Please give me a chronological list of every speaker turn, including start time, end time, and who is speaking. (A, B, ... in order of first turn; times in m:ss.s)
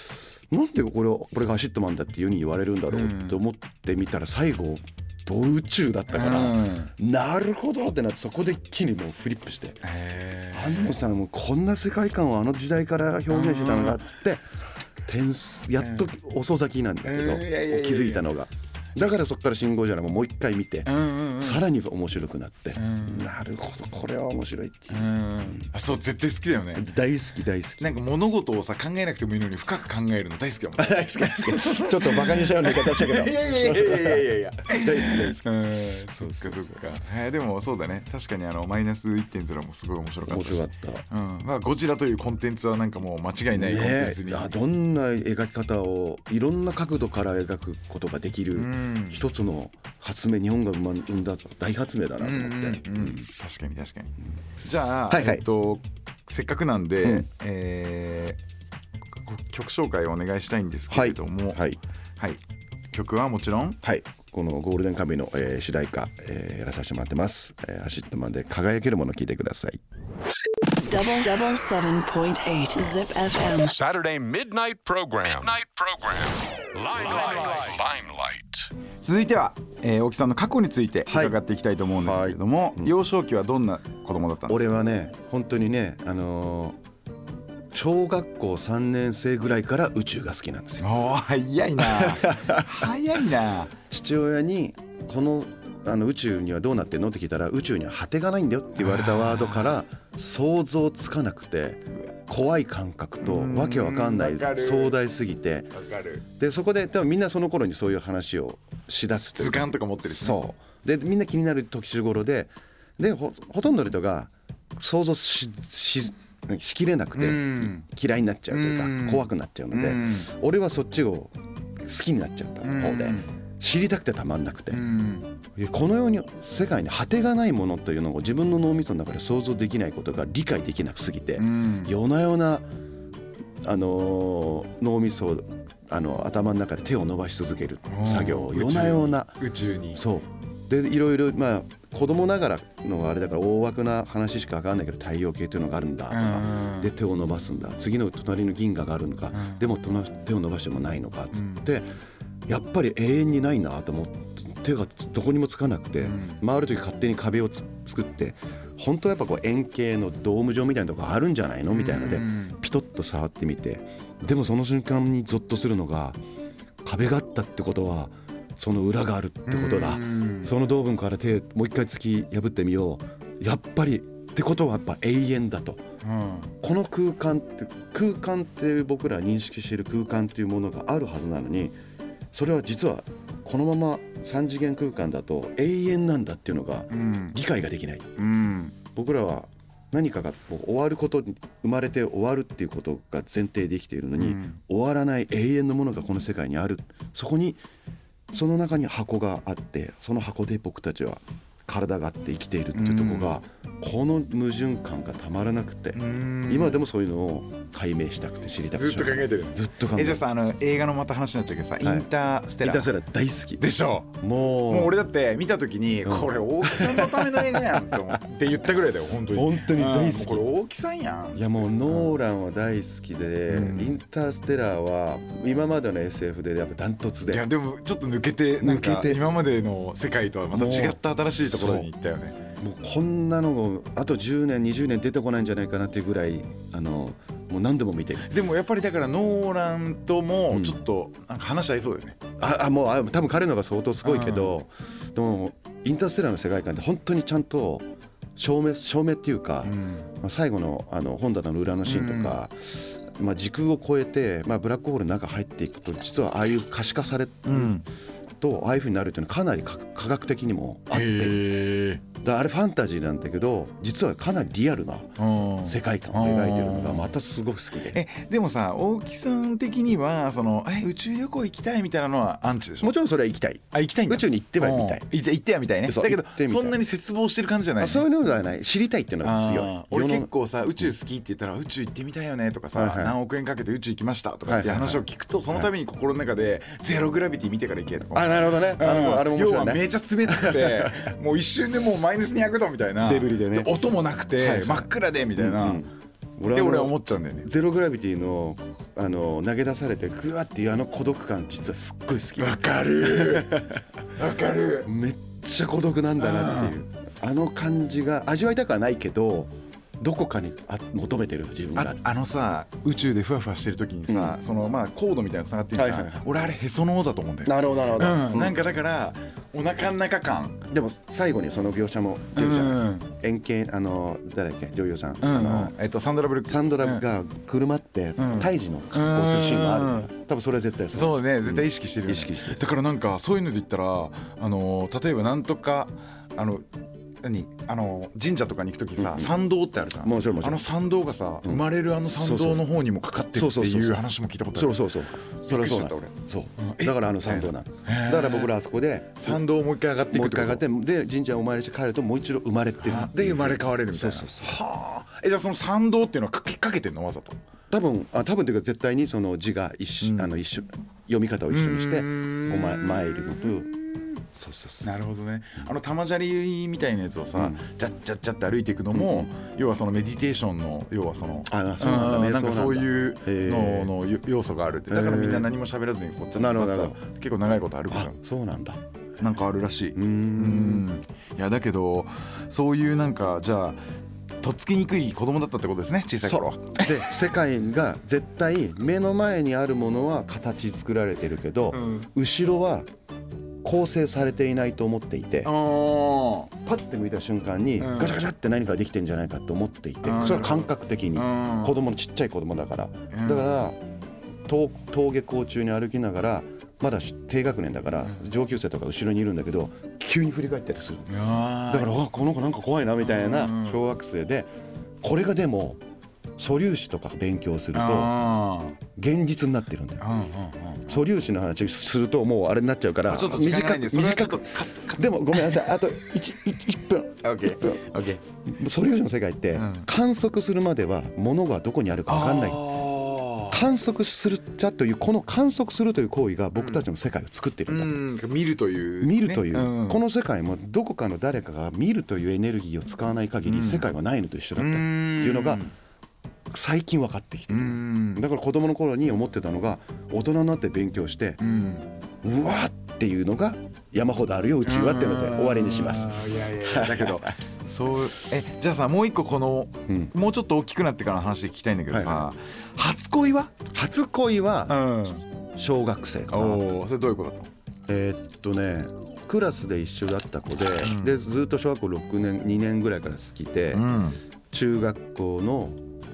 0:00.5-0:09.8 A
0:02.9-0:03.4 B
0:06.1-0:06.9 B
0:09.8-0:11.0 B
0:10.5-0:14.4 A
0:13.3-0:14.0 B
0:15.1-0:25.7 A
0:15.8-0:16.0 B
0:17.0-0:18.2 B
0:20.8-0:21.6 B
0:22.7-0:23.3 B
0:24.9-0:26.9 B
0:26.7-0:27.9 A
0:27.8-0:44.6 B
0:30.8-0:36.8 A
0:40.2-0:41.0 A
0:43.5-0:53.3 A
0:48.5-0:49.3 B
0:52.2-0:58.4 B
0:55.1-0:55.4 A
0:59.1-1:01.6 B
1:00.9-1:01.8 A
1:02.9-1:03.8 B
1:03.8-1:09.8 A
1:10.8-1:13.8 C
1:13.6-1:18.7 D
1:19.0-1:24.7 B
1:21.1-1:21.4 A
1:21.9-1:22.9 A
1:24.5-1:26.8 A
1:27.7-1:31.0 A
1:30.8-1:33.7 B
1:31.8-1:32.8 A
1:33.9-1:45.7 A
1:38.8-1:39.8 B
1:43.2-1:45.0 B
1:45.7-1:46.2 B
1:46.4-2:04.8 A
1:49.4-1:50.4 B
1:57.2-1:57.8 B
1:58.5-2:00.3 B
2:02.6-2:03.3 B
2:04.7-2:05.3 B
2:05.5-2:12.7 A
2:11.4-2:11.9 B
2:13.6-2:19.4 A
2:17.9-2:20.0 B
2:19.9-2:31.9 A
2:26.1-2:26.9 B
2:29.3-2:29.6 B
2:31.3-2:31.7 B
2:32.5-2:46.2 A
2:36.0-2:36.4 B
2:41.7-2:42.6 B
2:46.8-2:55.8 A
2:49.4-2:50.5 B
2:56.0-2:56.5 B
2:56.6-3:01.8 A
3:02.3-3:08.2 A
3:06.9-3:07.4 B
3:08.2-3:08.7 B
3:08.8-3:17.6 A
3:14.2-3:14.6 B
3:18.3-3:30.2 A
3:22.7-3:23.4 B
3:25.9-3:26.8 B
3:28.7-3:32.9 B
3:31.8-3:32.1 A
3:32.6-3:33.6 A
3:33.6-3:42.2 B
3:34.2-3:35.0 A
3:36.0-3:38.1 A
3:39.3-3:40.4 A
3:41.3-3:47.5 A
3:43.5-3:44.0 B
3:47.3-3:52.4 B
3:48.6-3:49.2 A
3:50.5-3:51.9 A
3:52.6-3:58.3 A
3:58.2-4:02.2 B
4:00.5-4:00.8 A
4:02.4-4:17.8 A
4:04.0-4:04.6 B
4:09.6-4:10.0 B
4:11.8-4:12.4 B
4:17.4-4:17.8 B
4:18.4-4:21.5 A
4:20.9-4:22.0 B
4:22.1-4:28.0 A
4:25.2-4:27.1 B
4:27.9-4:32.9 B
4:32.8-4:35.1 A
4:33.7-4:38.0 B
4:35.8-4:36.8 A
4:37.8-4:40.3 A
4:39.2-4:55.8 B
4:42.7-4:43.2 A
4:44.4-4:45.7 A
4:48.1-4:51.1 A
4:53.0-4:53.7 A
4:54.4-5:03.8 A
4:56.5-4:57.5 B
5:02.4-5:04.9 B
5:04.8-5:12.0 A
5:06.2-5:06.8 B
5:11.7-5:20.6 B
5:14.1-5:14.4 A
5:15.7-5:16.3 A
5:17.4-5:18.6 A
5:20.7-5:25.7 A
5:22.3-5:23.1 B
5:25.2-5:27.0 B
5:26.5-5:32.6 A
5:28.2-5:30.1 B
5:30.9-5:36.7 B
5:37.2-5:48.6 B
5:39.0-5:39.4 A
5:40.0-5:40.6 A
5:41.4-5:42.6 A
5:43.3-5:44.0 A
5:44.5-5:49.4 A
5:49.2-5:50.6 B
5:50.1-5:54.6 A
5:52.8-5:57.4 B
5:57.7-6:03.7 A
6:00.0-6:00.3 B
6:01.5-6:04.2 B
6:04.3-6:05.0 A
6:04.8-6:18.2 B
6:07.3-6:07.6 A
6:08.9-6:09.3 A
6:11.5-6:13.9 A
6:14.9-6:15.5 A
6:16.4-6:17.0 A
6:17.9-6:18.8 A
6:19.2-6:23.8 B
6:19.9-6:20.8 A
6:24.4-6:27.2 B
6:26.2-6:32.9 A
6:31.7-6:32.1 B
6:33.6-6:35.5 A
6:35.4-6:36.5 B
6:36.6-6:43.8 A
6:37.8-6:38.2 B
6:40.0-6:41.8 B
6:43.1-6:43.6 B
6:44.5-6:54.5 A
6:51.1-6:51.9 B
6:53.0-6:53.8 B
6:55.0-6:55.8 A
6:56.4-6:58.2 A
6:57.7-6:58.8 B
6:58.9-7:00.1 A
7:00.0-7:01.0 B
7:00.9-7:07.8 A
7:03.0-7:05.8 B
7:07.2-7:08.2 B
7:08.5-7:12.8 A
7:09.5-7:09.9 B
7:12.1-7:13.6 B
7:13.5-7:18.0 A
7:16.5-7:16.8 B
7:17.7-7:20.0 B
7:19.0-7:25.6 A
7:23.4-7:23.9 B
7:24.6-7:25.7 B
7:26.5-7:31.4 A
7:27.5-7:28.2 B
7:31.4-7:31.9 B
7:32.2-7:37.3 A
7:34.6-7:43.6 B
7:41.9-7:42.3 A
7:43.7-7:44.8 A
7:44.7-7:45.2 B
7:45.6-7:46.7 A
7:46.3-7:47.5 B
7:47.9-7:53.9 A
7:50.8-7:51.2 B
7:53.7-7:54.2 B
7:54.5-7:55.8 A